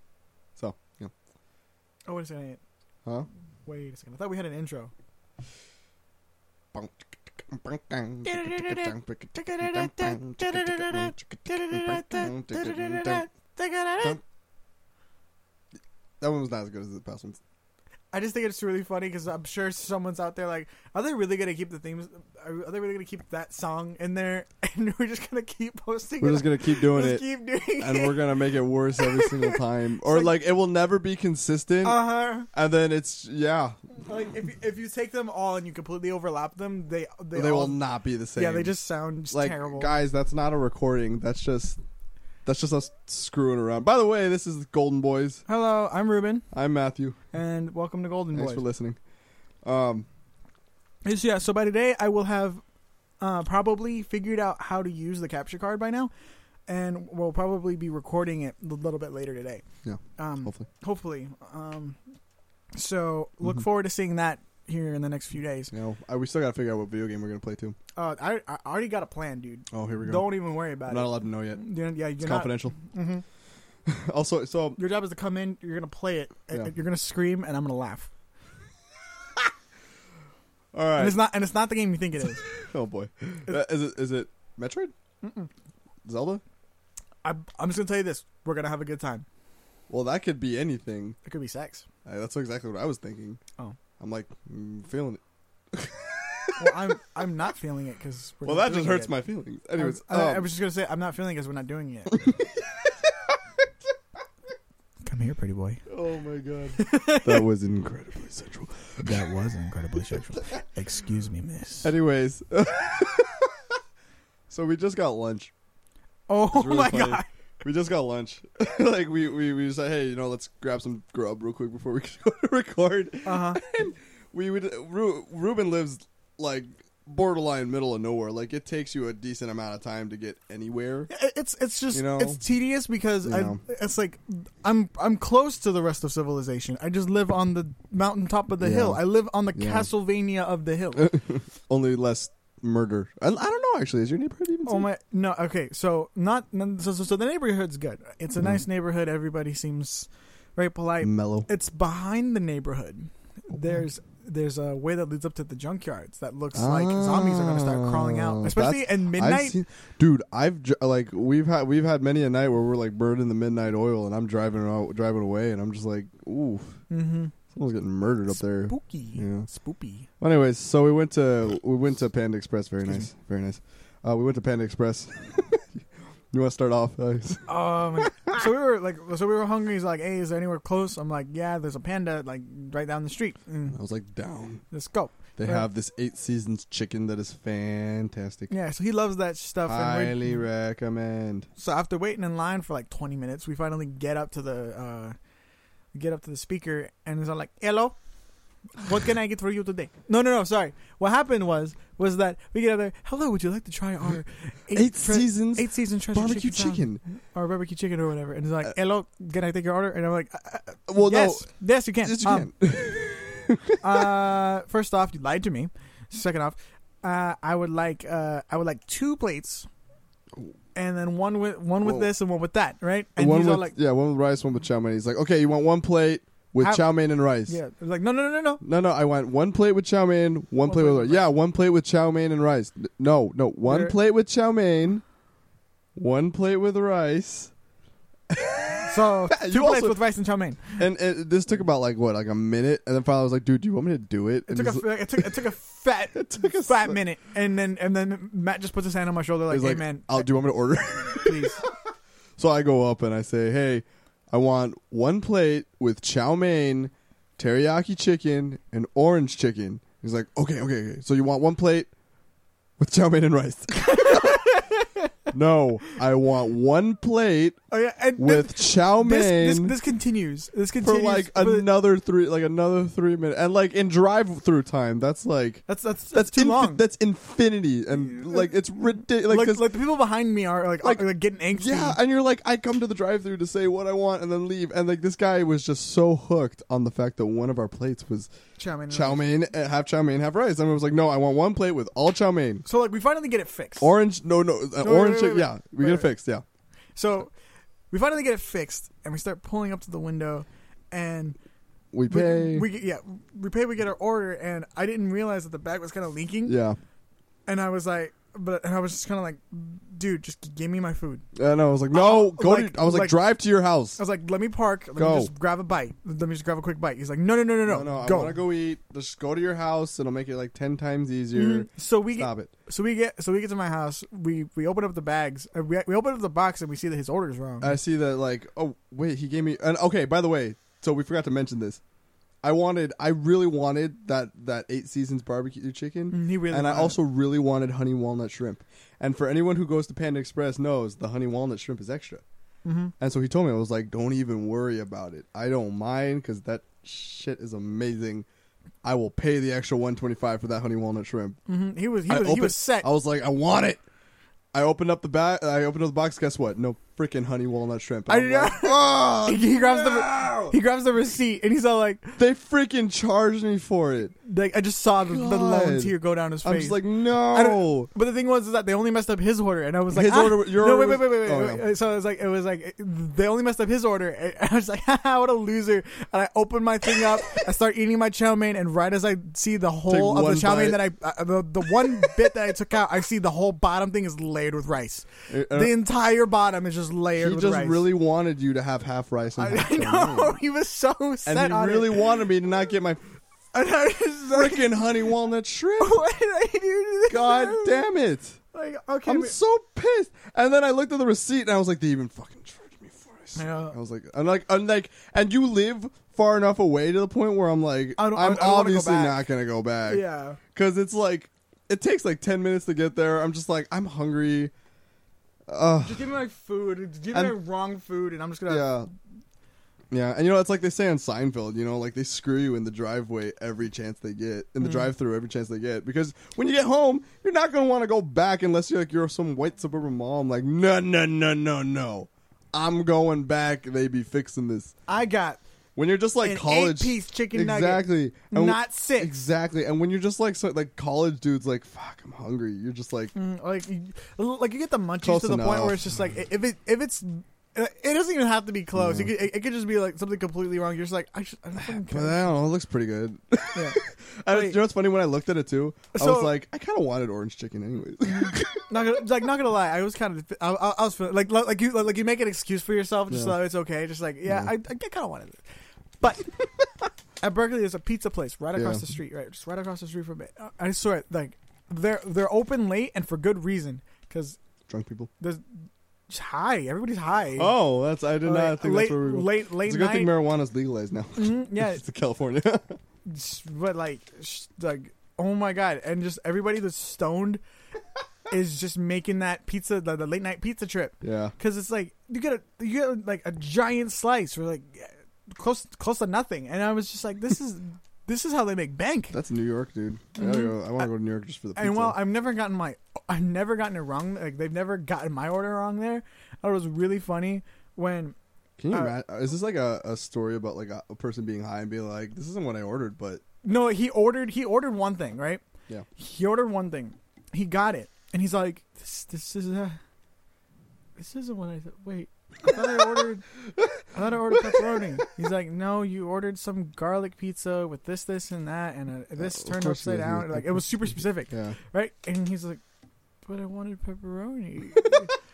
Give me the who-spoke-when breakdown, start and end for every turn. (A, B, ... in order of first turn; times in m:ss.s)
0:00.6-0:01.1 A
0:02.1-0:02.6 B
0:03.6-0:04.9 B
0:06.7-0:13.3 A
0:08.2-0:14.2 B
0:16.2-0:17.4 A
0:18.1-0:28.2 B
0:26.2-0:27.2 A
0:27.8-0:33.8 A
0:29.0-0:29.6 B
0:31.8-0:32.5 B
0:34.1-0:37.8 B
0:37.3-0:38.7 A
0:38.4-0:39.9 B
0:39.3-0:41.8 A
0:42.5-0:45.4 A
0:45.5-0:46.4 B
0:46.5-0:47.2 A
0:47.3-0:48.6 B
0:48.3-0:49.0 A
0:49.6-0:50.1 A
0:51.0-0:52.6 B
0:53.2-0:56.1 B
0:56.7-0:59.6 B
0:59.8-1:00.7 A
1:00.2-1:02.0 B
1:02.8-1:05.7 B
1:05.7-1:07.8 A
1:08.0-1:13.2 B
1:09.7-1:10.3 A
1:10.8-1:11.6 A
1:12.2-1:12.8 A
1:13.9-1:14.8 A
1:14.8-1:18.1 B
1:20.7-1:21.2 A
1:21.0-1:22.4 B
1:22.5-1:24.9 A
1:25.2-1:25.5 B
1:26.1-1:26.4 A
1:27.2-1:29.2 B
1:29.9-1:31.2 A
1:31.2-1:31.8 B
1:32.0-1:33.4 A
1:34.0-1:35.2 A
1:35.7-1:36.8 A
1:36.6-1:39.2 B
1:38.4-1:40.5 A
1:39.8-1:42.2 B
1:42.1-1:43.4 A
1:45.0-1:45.8 B
1:45.9-1:49.2 A
1:46.8-1:47.4 B
1:49.0-1:51.9 B
1:51.8-1:53.6 A
1:54.5-1:55.5 A
1:56.3-1:57.3 B
1:56.5-2:11.1 A
2:03.2-2:03.6 B
2:11.1-2:21.2 B
2:11.9-2:12.4 A
2:13.2-2:13.6 A
2:18.6-2:19.0 A
2:19.6-2:19.9 A
2:21.0-2:24.9 A
2:24.7-2:39.6 B
2:31.0-2:31.5 A
2:36.6-2:46.8 A
2:46.9-2:47.3 B
2:47.5-2:49.5 A
2:48.7-2:50.1 B
2:50.2-2:55.8 A
2:56.3-2:58.5 A
2:57.5-3:03.8 B
3:03.7-3:04.6 A
3:04.7-3:05.6 B
3:05.4-3:08.5 A
3:08.5-3:10.4 B
3:09.7-3:11.5 A
3:11.6-3:15.2 B
3:15.9-3:18.0 B
3:18.8-3:32.5 B
3:24.7-3:27.0 A
3:30.9-3:31.5 A
3:32.0-3:34.2 A
3:33.8-3:39.7 B
3:40.8-3:43.7 B
3:41.8-3:42.1 A
3:43.2-3:47.6 A
3:46.6-3:46.9 B
3:47.5-3:48.6 B
3:48.6-3:55.0 A
3:50.6-3:51.2 B
3:53.7-3:54.0 B
3:56.0-3:57.5 A
3:58.3-4:00.0 A
3:58.9-4:00.8 B
4:00.8-4:05.4 A
4:04.5-4:10.3 B
4:06.2-4:07.0 A
4:09.5-4:11.7 A
4:11.1-4:11.6 B
4:12.4-4:21.9 A
4:22.8-4:24.6 A
4:23.9-4:25.1 B
4:25.3-4:27.6 A
4:27.7-4:31.7 B
4:28.2-4:29.8 A
4:30.8-4:39.7 A
4:35.7-4:36.8 B
4:39.1-4:42.0 B
4:40.8-4:48.3 A
4:48.6-4:49.2 B
4:48.9-4:52.6 A
4:52.6-4:53.9 B
4:53.8-4:56.4 A
4:54.8-4:56.1 B
4:57.0-4:57.3 B
4:57.9-5:01.4 B
5:01.9-5:02.7 A
5:02.1-5:06.6 B
5:06.4-5:06.8 A
5:07.5-5:11.2 B
5:11.4-5:14.0 A
5:11.9-5:13.2 B
5:14.0-5:18.4 B
5:15.0-5:15.3 A
5:17.7-5:22.5 A
5:21.3-5:27.8 B
5:27.6-5:31.8 A
5:32.4-5:42.2 A
5:36.1-5:37.0 B
5:42.6-5:42.9 B
5:43.0-5:48.3 A
5:48.8-5:51.4 A
5:51.5-5:52.9 B
5:52.1-5:53.8 A
5:54.5-6:00.6 A
5:58.1-6:02.2 B
6:02.2-6:04.1 A
6:04.2-6:27.9 B
6:05.0-6:07.9 A
6:09.9-6:11.6 A
6:19.9-6:20.8 A
6:21.8-6:22.1 A
6:25.3-6:25.8 A
6:27.2-6:30.4 A
6:29.4-6:32.2 B
6:31.3-6:33.0 A
6:33.5-6:34.9 B
6:34.3-6:36.0 A
6:35.8-6:37.9 B
6:37.1-6:38.4 A
6:38.5-6:39.4 B
6:39.1-6:54.5 A
6:43.4-6:43.8 B
6:48.0-6:49.2 B
6:49.9-6:50.4 B
6:55.5-6:56.1 A
6:55.8-6:58.8 B
6:57.1-6:57.4 A
6:58.5-6:58.9 A
6:59.9-7:14.7 A
7:14.9-7:15.4 B
7:15.8-7:23.1 A
7:16.2-7:19.1 B
7:23.1-7:32.3 B
7:25.0-7:25.8 A
7:28.8-7:29.1 A
7:31.6-7:38.7 A
7:33.5-7:34.6 B
7:35.9-7:36.3 B
7:38.0-7:45.4 B
7:43.1-7:43.4 A
7:44.3-7:44.5 A
7:46.0-7:54.4 B
7:48.6-7:48.9 A
7:54.7-7:55.1 A
7:55.2-7:57.6 B
7:57.4-8:02.8 A
7:58.2-8:00.1 B
8:01.2-8:01.8 B
8:03.0-8:07.4 B
8:08.3-8:19.2 B
8:11.0-8:11.3 A
8:19.1-8:22.0 A
8:20.2-8:20.9 B
8:21.6-8:28.2 B
8:28.6-8:33.2 A
8:33.4-8:35.4 B
8:36.0-8:39.8 B
8:41.0-8:43.2 B
8:43.9-8:52.6 B
8:44.3-8:44.8 A
8:49.2-8:50.6 A
8:51.3-8:51.6 A
8:53.3-8:55.1 B
8:54.8-8:55.1 A